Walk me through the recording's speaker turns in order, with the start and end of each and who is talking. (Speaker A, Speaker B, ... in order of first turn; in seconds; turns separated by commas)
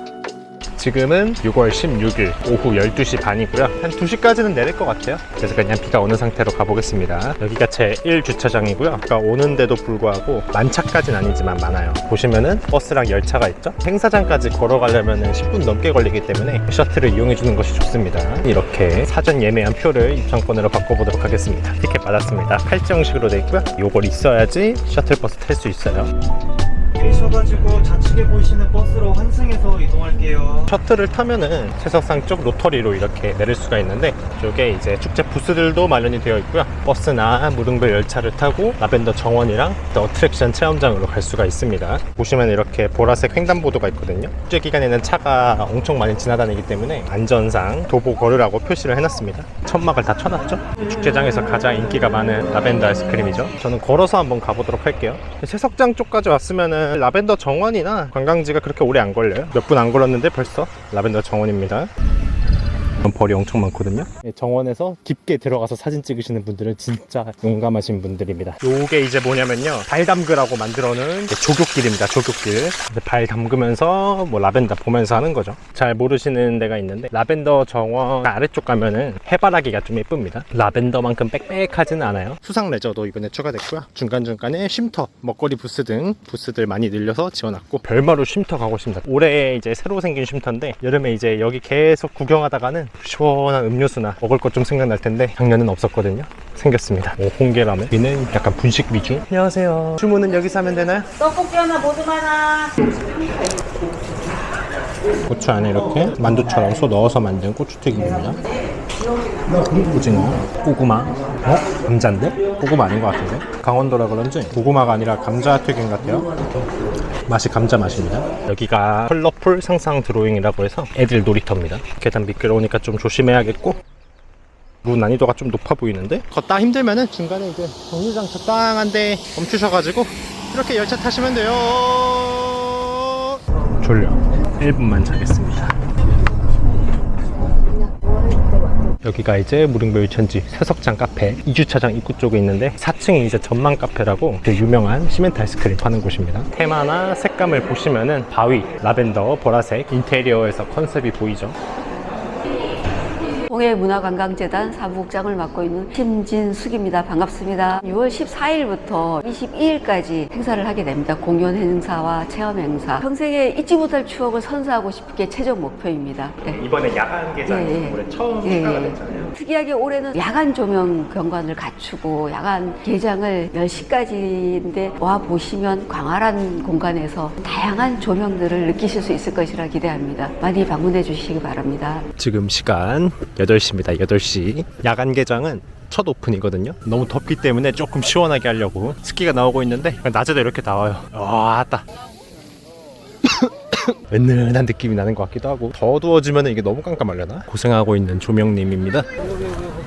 Speaker A: 0.8-26.1, Speaker B: 26.9-30.7, Speaker A: 30.5-61.9, Speaker A: 63.0-101.3, Speaker C: 101.3-102.7, Speaker A: 105.3-108.4, Speaker A: 109.5-116.3, Speaker A: 117.3-123.8, Speaker A: 124.8-135.9, Speaker A: 139.0-151.6, Speaker C: 153.4-166.6, Speaker A: 166.4-169.3, Speaker C: 167.4-182.1, Speaker A: 182.2-191.8, Speaker A: 193.2-199.1